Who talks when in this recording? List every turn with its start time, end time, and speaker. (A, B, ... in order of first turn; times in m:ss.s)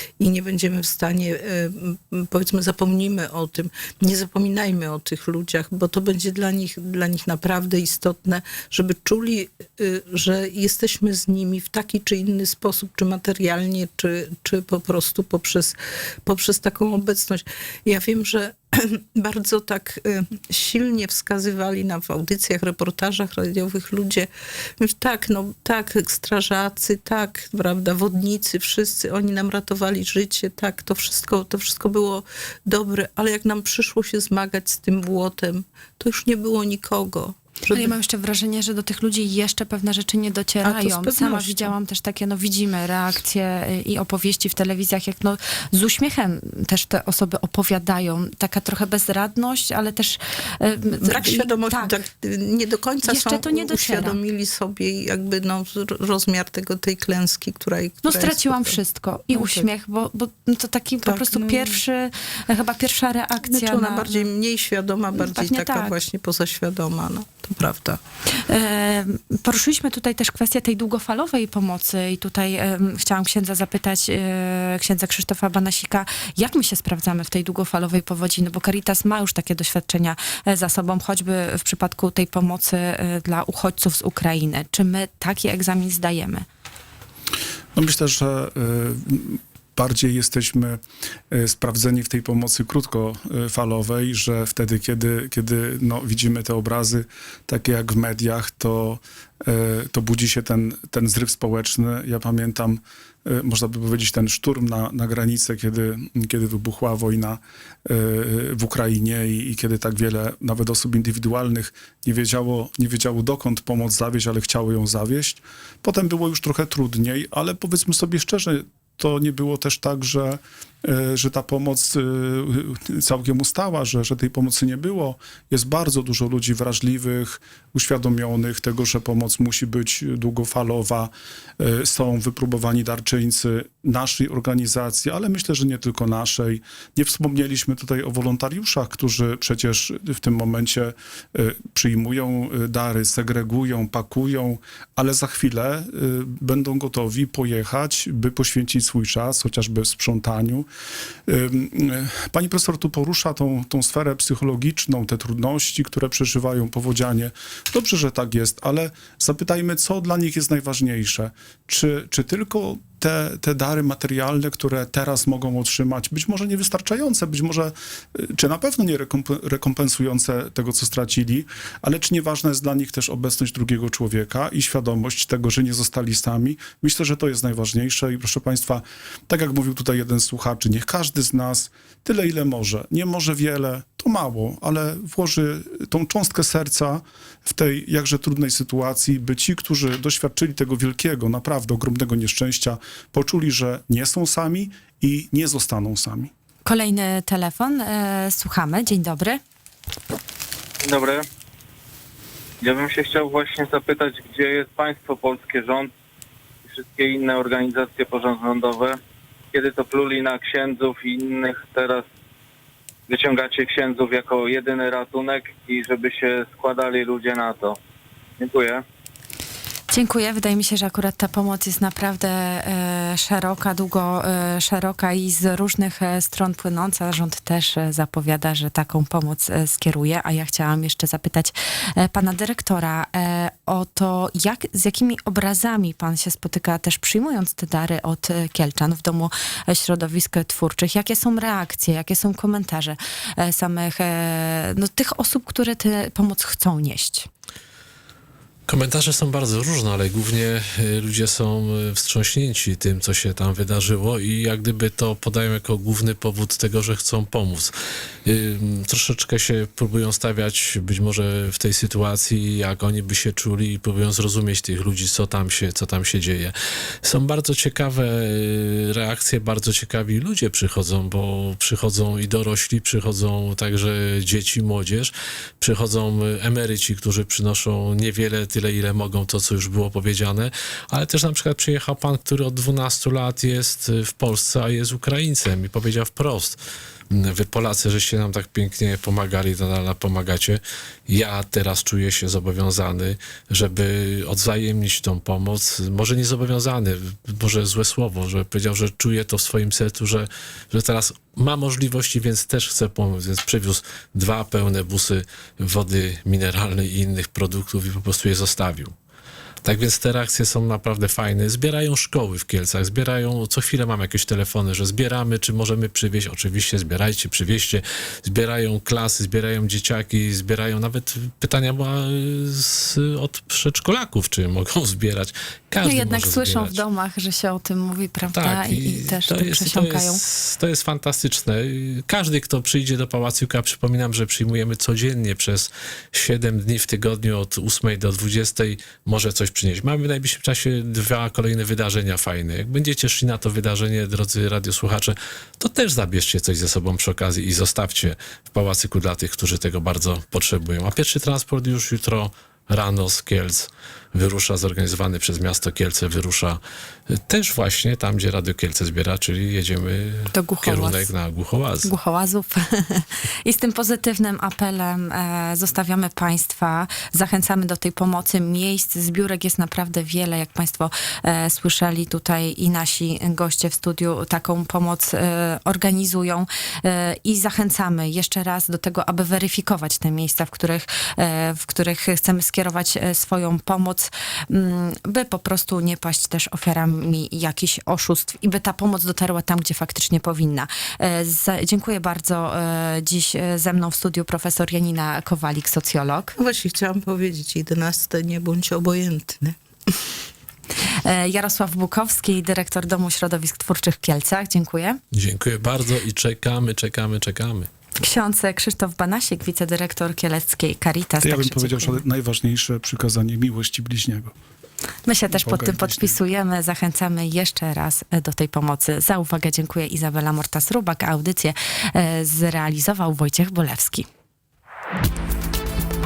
0:00.2-0:37.9 A
0:37.7-0:51.9 B
0:40.6-0:41.7 A
0:51.0-0:58.8 A
0:53.0-0:54.2 B
0:58.0-1:04.2 B
0:59.3-0:59.7 A
1:01.0-1:01.8 A
1:03.4-1:08.0 A
1:05.1-1:05.9 B
1:08.3-1:26.4 B
1:27.7-2:30.7 C
2:31.3-3:16.3 C
3:16.6-3:19.4 B
3:20.8-3:21.2 D
3:22.6-3:25.9 D
3:26.7-3:29.0 D
3:29.5-3:32.0 D
3:33.1-3:37.8 D
3:38.4-3:38.8 D
3:39.9-4:07.3 B
4:08.7-4:17.7 E
4:18.2-4:46.6 E
4:47.1-5:08.9 E
5:09.6-5:26.8 E
5:25.8-5:30.2 B
5:28.3-6:01.9 E
6:00.3-6:01.1 B
6:01.8-6:36.3 B
6:36.4-6:39.6 A
6:40.9-6:45.0 B
6:45.1-6:47.7 E
6:48.0-6:52.0 B
6:51.2-6:54.3 C
6:55.0-7:04.1 B
6:55.3-6:56.2 C